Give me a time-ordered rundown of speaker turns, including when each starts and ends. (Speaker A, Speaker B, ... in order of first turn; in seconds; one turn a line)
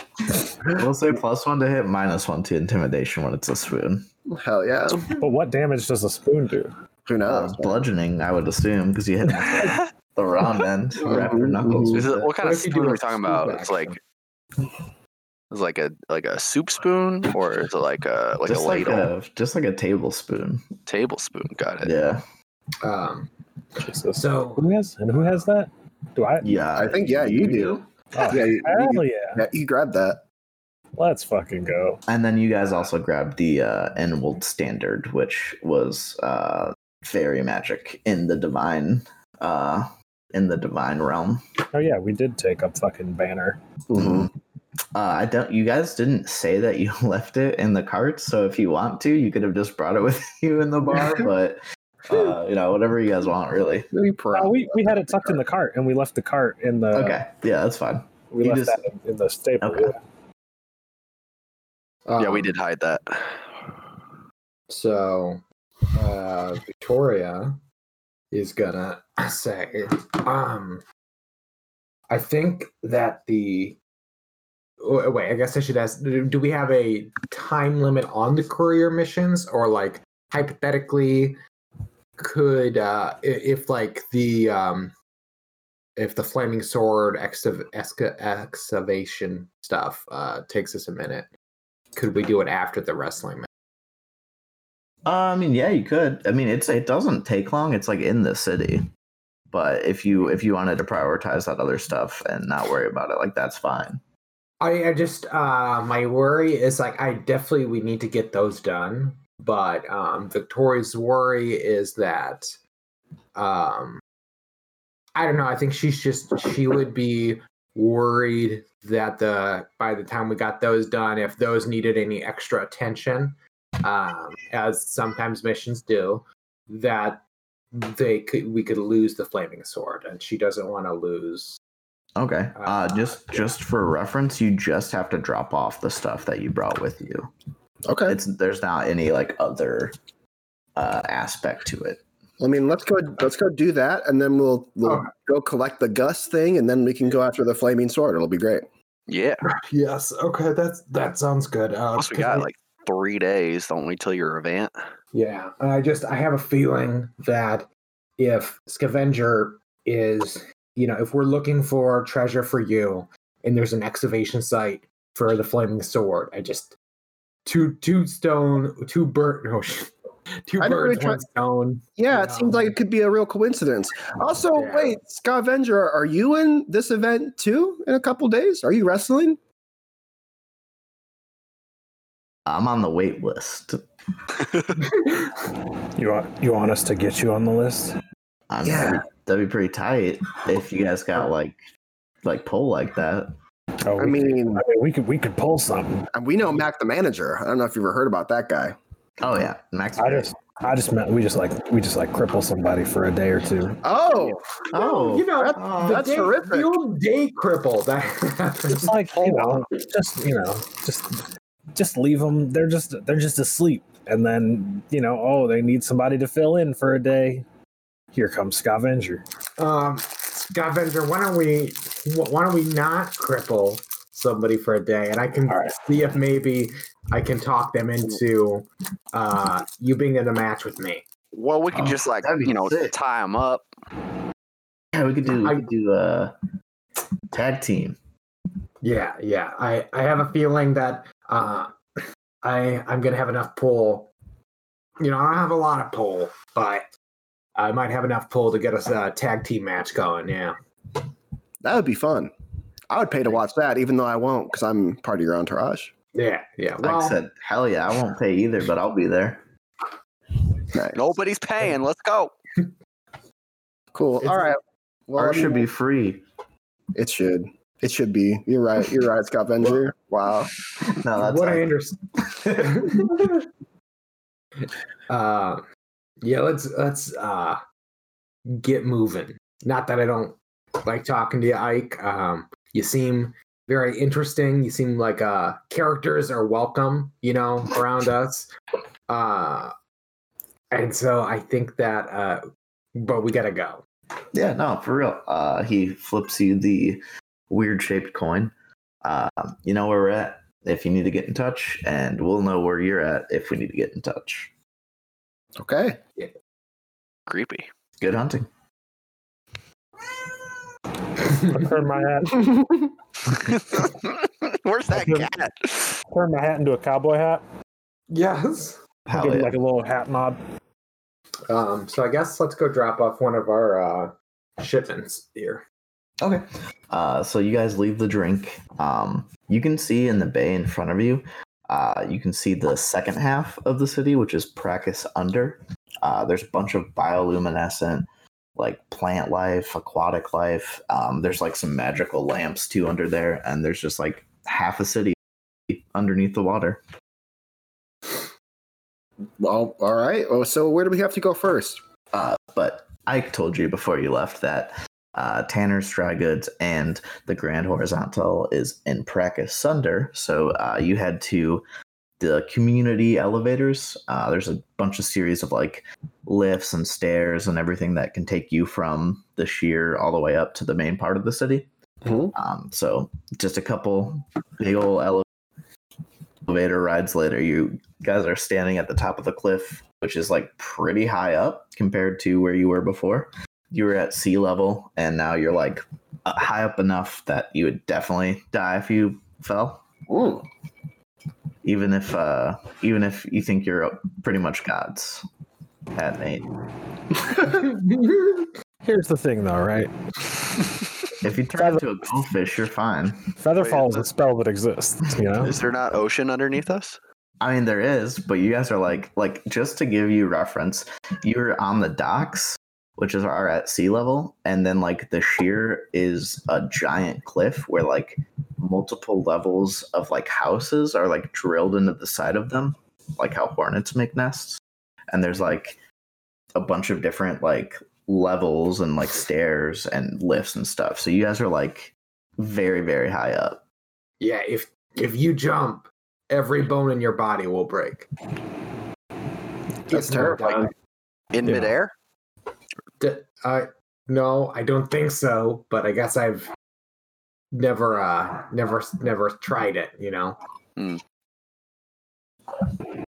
Speaker A: 0.2-4.1
Speaker B: 4.3-5.1
Speaker C: 5.1-6.7
Speaker B: 7.0-7.8
Speaker A: 7.2-12.3
Speaker B: 11.0-12.0
Speaker D: 11.9-14.0
Speaker E: 12.4-14.0
Speaker D: 15.5-19.1
Speaker A: 18.4-20.7
Speaker D: 20.9-21.9
Speaker A: 21.8-22.2
Speaker E: 22.8-23.3
Speaker C: 23.8-26.6
Speaker E: 24.1-24.7
Speaker A: 26.4-27.9
Speaker B: 26.7-30.2
Speaker C: 28.1-29.4
Speaker C: 30.9-32.0
Speaker A: 32.1-41.4
Speaker C: 41.7-43.6
Speaker B: 43.9-44.3
Speaker A: 43.9-44.3
Speaker A: 44.9-53.9
Speaker B: 53.9-55.4
Speaker C: 54.3-57.2
Speaker A: 56.9-58.8
Speaker C: 58.3-60.0
Speaker A: 59.6-59.9
Speaker E: 62.1-62.5
Speaker D: 62.2-63.6
Speaker E: 64.7-65.4
Speaker E: 65.9-67.6
Speaker E: 68.3-70.8
Speaker E: 72.1-73.8
Speaker E: 74.8-81.4
Speaker E: 82.2-84.9
Speaker E: 86.0-91.3
Speaker E: 91.9-93.5
Speaker A: 95.0-98.9
Speaker A: 99.5-104.0
Speaker E: 104.6-112.5
Speaker E: 113.3-114.0
Speaker E: 115.1-131.6
Speaker A: 132.2-137.3
Speaker E: 132.6-133.6
Speaker B: 137.9-138.2
Speaker A: 138.1-139.9
Speaker A: 140.8-142.0
Speaker B: 142.4-148.7
Speaker D: 149.1-149.4
Speaker E: 149.6-152.5
Speaker D: 151.9-154.7
Speaker E: 155.1-166.8
Speaker E: 167.4-169.9
Speaker E: 170.4-172.8
Speaker B: 170.6-171.2
Speaker B: 172.0-179.4
Speaker E: 174.5-174.9
Speaker A: 182.4-183.8
Speaker C: 185.9-188.0
Speaker A: 188.5-191.6
Speaker B: 188.6-189.0
Speaker A: 192.2-193.4
Speaker C: 193.8-196.1
Speaker B: 194.0-194.6
Speaker B: 196.1-198.8
Speaker A: 199.2-200.3
Speaker C: 200.0-203.8
Speaker B: 203.8-204.4
Speaker A: 204.7-206.2
Speaker E: 204.7-208.9
Speaker B: 205.5-206.7
Speaker C: 208.7-217.4
Speaker D: 209.2-209.7
Speaker C: 218.1-219.2
Speaker E: 219.6-231.0
Speaker D: 231.3-233.7
Speaker A: 231.7-232.9
Speaker A: 234.9-236.3
Speaker E: 235.3-235.6
Speaker A: 237.3-238.0
Speaker E: 238.8-244.1
Speaker E: 245.0-246.9
Speaker E: 247.6-250.6
Speaker B: 251.6-252.3
Speaker B: 252.9-255.9
Speaker E: 256.1-257.2
Speaker A: 256.8-259.4
Speaker B: 260.7-261.0
Speaker D: 260.9-262.3
Speaker B: 263.9-265.6
Speaker E: 264.2-264.5
Speaker A: 265.1-266.2
Speaker B: 266.9-270.5
Speaker A: 270.8-271.7
Speaker E: 271.2-273.2
Speaker A: 272.3-272.9
Speaker E: 275.1-275.6
Speaker E: 276.2-277.6
Speaker E: 278.4-288.5
Speaker E: 289.1-289.7
Speaker E: 290.7-292.4
Speaker E: 292.9-293.8
Speaker A: 294.3-304.5
Speaker B: 305.6-306.0
Speaker D: 307.3-307.7
Speaker A: 308.0-308.5
Speaker C: 311.3-312.8
Speaker D: 313.3-315.9
Speaker C: 314.9-315.3
Speaker C: 316.1-317.4
Speaker E: 318.1-318.8
Speaker A: 319.1-319.5
Speaker C: 319.1-320.4
Speaker E: 321.5-325.6
Speaker A: 326.2-345.2
Speaker A: 345.7-346.8
Speaker B: 349.4-351.8
Speaker A: 352.1-361.6
Speaker A: 362.2-371.7
Speaker B: 372.0-372.3
Speaker A: 372.3-375.2
Speaker A: 376.4-389.8
Speaker B: 390.1-390.5
Speaker A: 391.6-395.2
Speaker A: 395.9-396.6
Speaker E: 397.8-398.1
Speaker C: 398.8-400.7
Speaker A: 401.2-403.3
Speaker C: 401.6-401.8
Speaker C: 403.4-405.6
Speaker D: 403.6-404.1
Speaker D: 405.3-407.0
Speaker A: 407.4-425.8
Speaker A: 426.5-433.6
Speaker E: 434.2-438.1
Speaker E: 439.9-440.7
Speaker B: 439.9-440.7
Speaker D: 441.3-441.9
Speaker E: 443.0-446.5
Speaker E: 447.5-450.4